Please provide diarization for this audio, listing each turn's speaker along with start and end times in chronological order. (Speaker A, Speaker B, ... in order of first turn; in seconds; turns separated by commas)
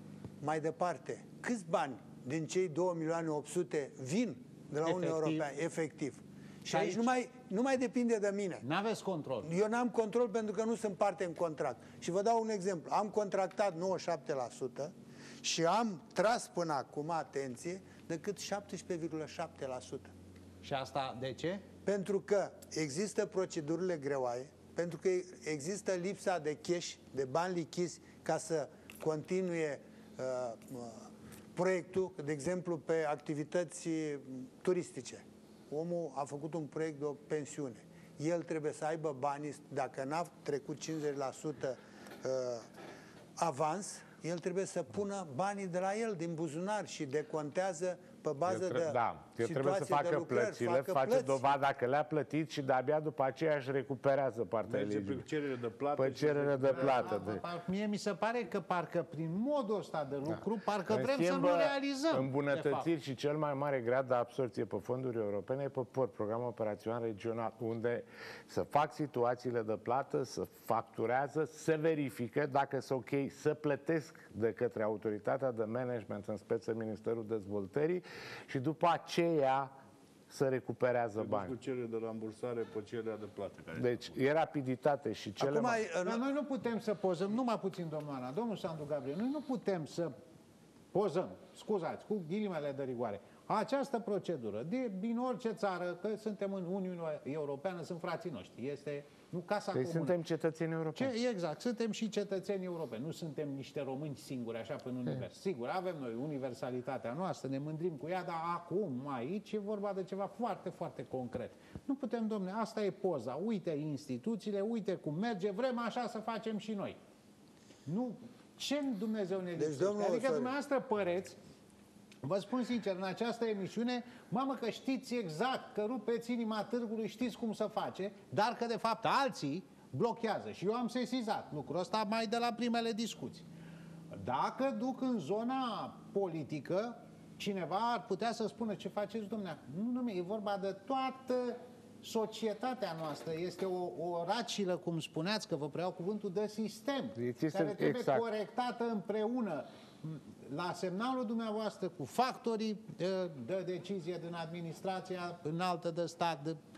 Speaker A: 0.4-8.6, Speaker B: 4.8-5.4, Speaker B: 6.7-7.1, Speaker B: 8.6-9.5, Speaker A: 9.4-20.1, Speaker B: 20.6-21.6, Speaker A: 21.8-42.7, Speaker A: 43.4-51.4, Speaker C: 48.5-55.2, Speaker D: 54.7-57.2, Speaker C: 56.0-57.4, Speaker B: 56.7-62.9, Speaker C: 60.3-79.7, Speaker C: 80.3-81.5, Speaker D: 81.2-84.2, Speaker C: 83.8-85.8, Speaker A: 85.4-86.2, Speaker B: 86.0-90.1, Speaker B: 90.9-100.2, Speaker C: 99.7-101.1, Speaker B: 100.9-117.0, Speaker B: 117.8-121.3, Speaker A: 119.6-120.5, Speaker B: 122.2-133.4, Speaker B: 134.1-156.6, Speaker C: 147.2-148.3